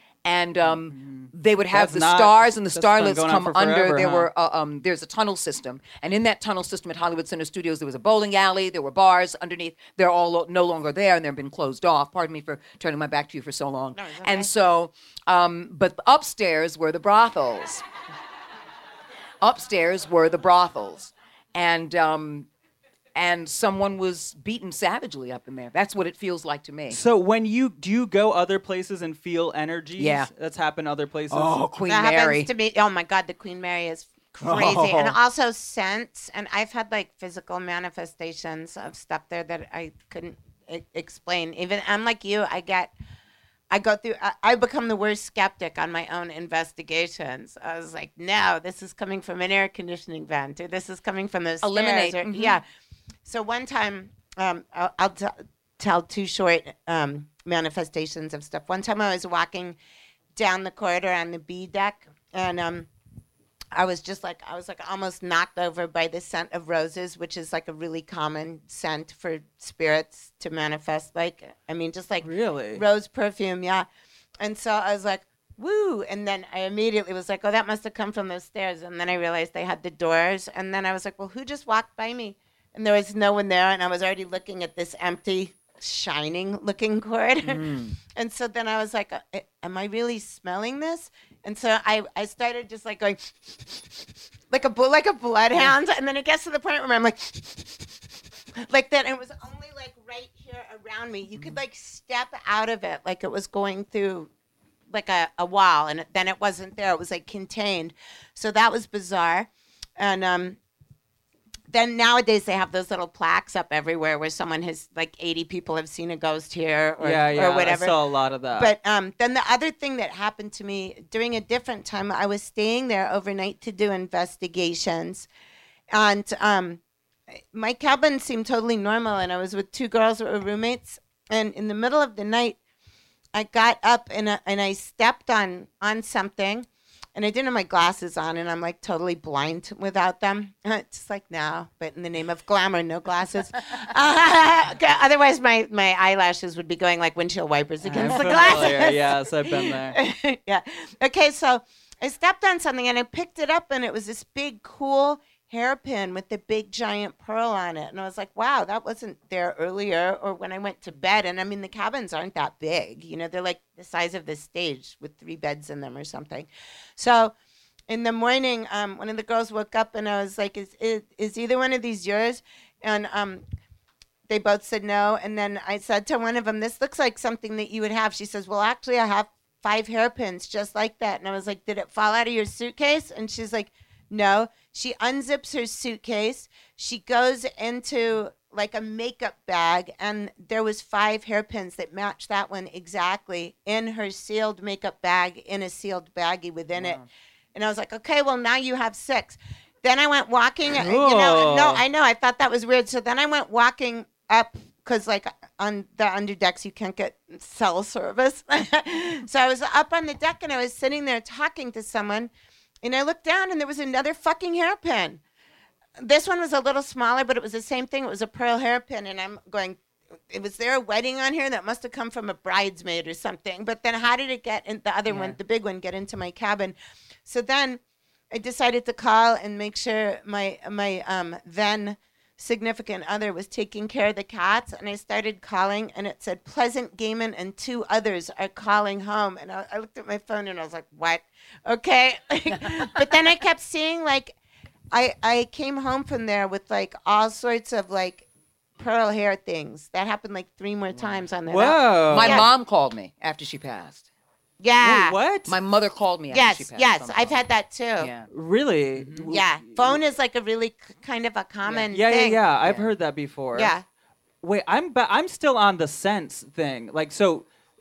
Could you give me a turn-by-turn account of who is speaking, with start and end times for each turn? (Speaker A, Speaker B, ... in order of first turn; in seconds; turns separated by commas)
Speaker A: 0.2-17.8, Speaker B: 0.6-4.3, Speaker C: 13.9-14.5, Speaker A: 19.4-22.5, Speaker A: 23.1-27.0, Speaker B: 26.9-31.6, Speaker A: 29.9-30.3, Speaker A: 31.3-32.5, Speaker C: 31.9-42.9, Speaker A: 34.4-35.1, Speaker C: 43.7-52.6, Speaker A: 51.6-52.6, Speaker C: 53.2-59.8, Speaker C: 60.4-62.9, Speaker C: 63.7-73.9, Speaker B: 72.2-72.8, Speaker C: 74.4-93.8, Speaker A: 87.6-87.9, Speaker C: 94.5-97.9, Speaker C: 98.7-104.3, Speaker C: 104.9-110.6, Speaker C: 111.7-118.0, Speaker B: 117.0-118.7, Speaker C: 118.5-125.3, Speaker C: 125.9-126.8, Speaker C: 127.5-132.6, Speaker C: 133.3-167.3, Speaker B: 147.9-150.0, Speaker C: 167.9-173.4, Speaker C: 174.3-197.0, Speaker A: 196.8-197.1, Speaker C: 197.5-212.3, Speaker B: 200.8-201.8, Speaker C: 212.8-215.2, Speaker C: 216.0-219.8, Speaker C: 220.3-227.8, Speaker B: 225.1-225.4, Speaker C: 228.3-244.3, Speaker C: 244.9-248.2, Speaker C: 248.8-252.5, Speaker B: 251.5-252.5, Speaker A: 252.1-254.1, Speaker C: 254.6-255.2, Speaker B: 254.8-255.6, Speaker A: 255.4-257.4, Speaker C: 256.3-258.1, Speaker A: 258.0-258.3, Speaker B: 258.3-260.0, Speaker A: 259.0-259.2, Speaker C: 259.2-262.4, Speaker B: 261.9-263.7, Speaker C: 263.5-263.8, Speaker B: 264.4-267.4